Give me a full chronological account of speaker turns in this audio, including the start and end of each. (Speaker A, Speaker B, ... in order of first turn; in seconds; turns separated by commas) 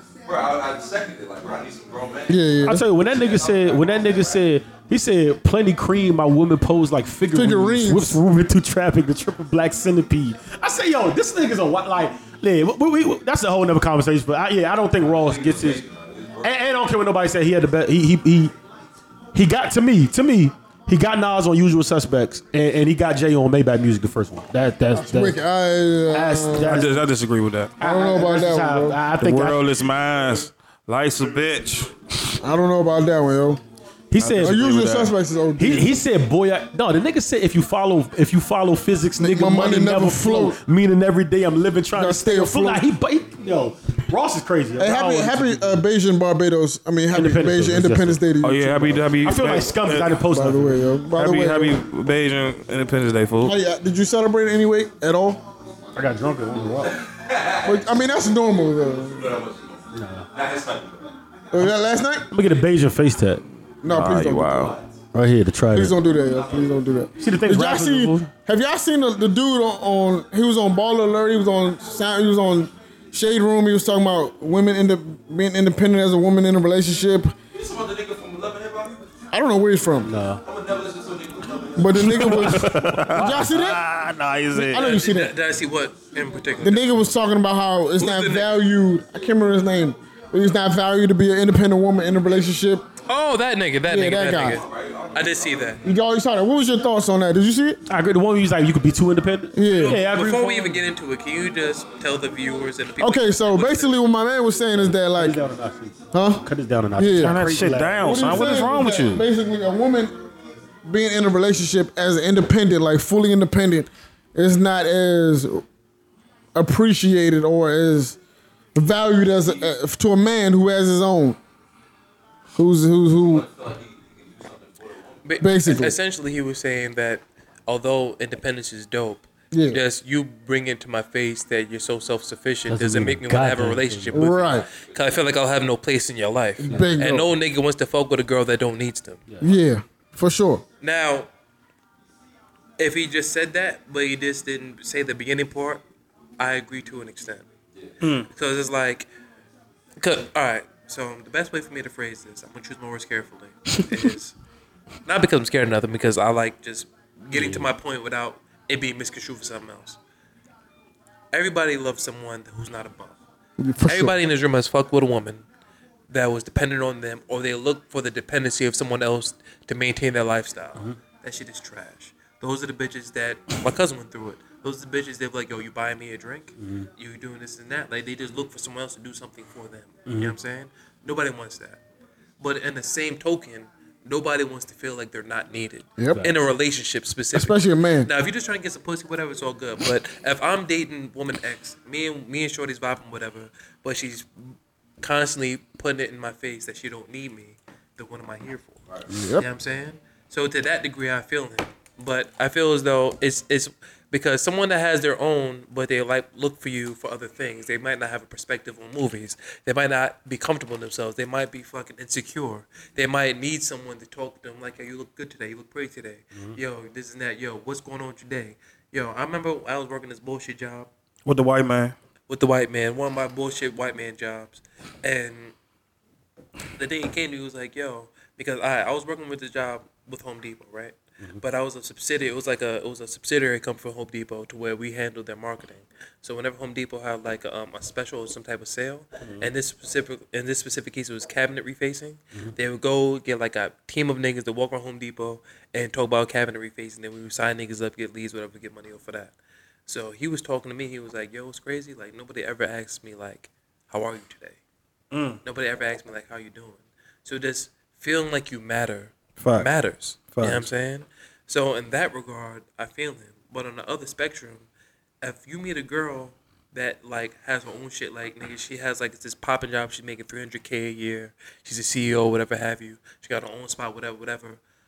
Speaker A: 0.2-4.5, Speaker B: 2.3-2.9, Speaker C: 2.6-15.8, Speaker B: 7.3-8.2, Speaker A: 15.0-16.8, Speaker C: 16.4-18.5, Speaker C: 19.3-25.4, Speaker B: 24.9-26.9, Speaker C: 26.1-27.1, Speaker D: 26.7-27.7, Speaker C: 27.8-29.7, Speaker B: 27.8-29.0, Speaker D: 29.2-32.4, Speaker B: 32.4-33.6, Speaker C: 34.1-34.6, Speaker D: 34.2-35.1, Speaker B: 34.4-36.0, Speaker C: 35.6-45.8, Speaker B: 39.2-40.6, Speaker B: 41.9-42.9, Speaker B: 44.8-49.0, Speaker C: 47.1-50.8, Speaker D: 48.4-50.2, Speaker B: 50.2-51.8, Speaker D: 51.1-53.5, Speaker B: 53.4-55.4, Speaker C: 56.0-57.0, Speaker A: 56.8-58.0, Speaker B: 57.6-59.3, Speaker A: 59.0-61.1, Speaker C: 59.9-60.3, Speaker B: 61.5-62.3, Speaker C: 62.3-63.4, Speaker B: 63.8-64.7, Speaker D: 63.9-64.8, Speaker A: 64.5-64.9, Speaker C: 65.1-65.9, Speaker B: 65.7-77.3, Speaker A: 66.2-66.9, Speaker C: 67.2-68.3, Speaker A: 77.5-79.0, Speaker B: 79.3-80.1, Speaker C: 80.0-80.4, Speaker A: 80.3-82.1, Speaker B: 81.8-83.8, Speaker D: 81.9-84.9, Speaker C: 82.0-83.6, Speaker B: 84.5-85.3, Speaker E: 84.7-87.0, Speaker B: 86.6-92.8, Speaker E: 88.0-88.6, Speaker E: 93.0-95.8, Speaker B: 93.9-94.6, Speaker A: 94.2-95.8, Speaker B: 95.8-97.8, Speaker C: 97.9-100.8, Speaker B: 99.5-100.0, Speaker E: 99.7-103.9, Speaker B: 103.0-105.4, Speaker C: 104.9-108.7, Speaker B: 106.1-106.4, Speaker B: 107.0-107.4, Speaker D: 107.2-109.2, Speaker B: 108.0-110.2, Speaker B: 110.8-115.6, Speaker B: 116.5-118.2, Speaker B: 118.7-121.4, Speaker A: 119.4-119.7, Speaker B: 122.5-123.5, Speaker A: 123.2-125.4, Speaker E: 125.2-139.2, Speaker B: 125.4-126.0, Speaker B: 129.5-129.8, Speaker C: 132.7-134.3, Speaker B: 134.1-134.7, Speaker A: 134.5-135.0, Speaker B: 136.6-137.3, Speaker B: 139.4-140.6, Speaker E: 140.8-141.3, Speaker E: 142.8-145.8, Speaker E: 146.4-147.4, Speaker D: 148.0-148.3, Speaker E: 148.3-149.1, Speaker E: 150.0-154.3, Speaker E: 155.1-160.0, Speaker C: 157.4-157.6, Speaker E: 161.3-163.2, Speaker B: 163.6-164.2, Speaker E: 163.8-165.4, Speaker E: 166.1-181.8, Speaker C: 176.6-176.9, Speaker C: 180.1-180.3, Speaker E: 182.4-194.3, Speaker B: 186.0-186.2, Speaker C: 186.1-186.4, Speaker B: 187.3-188.1, Speaker E: 195.0-198.8, Speaker B: 199.1-199.4, Speaker E: 199.3-220.9, Speaker D: 221.2-221.9, Speaker E: 222.3-225.5, Speaker E: 226.8-249.3, Speaker C: 239.2-239.5, Speaker E: 249.9-254.6, Speaker D: 255.1-255.4, Speaker E: 255.4-264.7, Speaker D: 259.4-259.7, Speaker D: 260.3-260.7, Speaker E: 265.2-274.6